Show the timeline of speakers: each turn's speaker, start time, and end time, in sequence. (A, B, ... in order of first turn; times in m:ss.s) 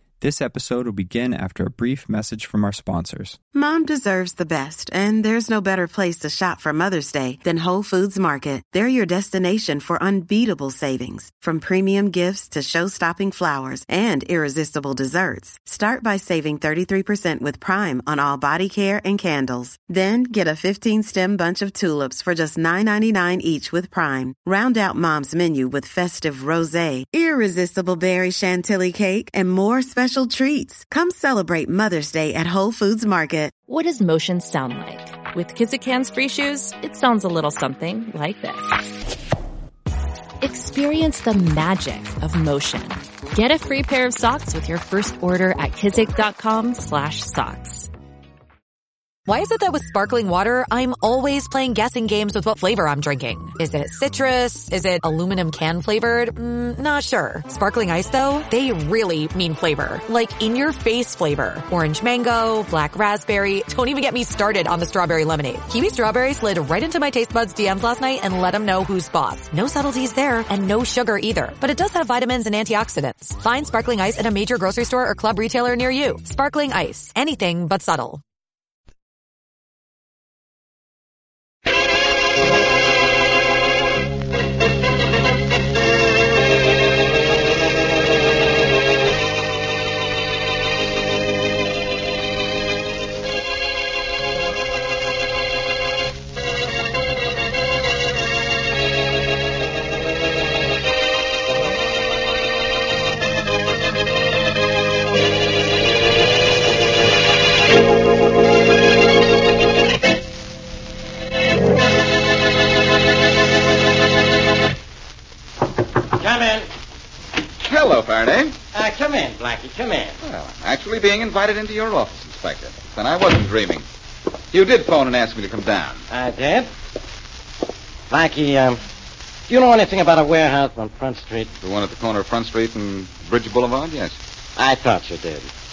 0:00.2-0:03.4 A
0:03.5-0:33.6 B
0:33.7-0:38.8 C
0:40.4-0:47.9 C
0:49.3-1:18.2 D
1:56.2-1:56.7 E
1:57.6-1:58.6 F
1:58.7-2:00.2 E
2:00.2-2:03.9 F
2:04.5-2:06.0 F
2:06.1-2:06.7 E
2:08.1-2:08.8 E
2:09.5-2:11.5 E
2:11.6-2:14.2 F
2:14.6-2:15.5 E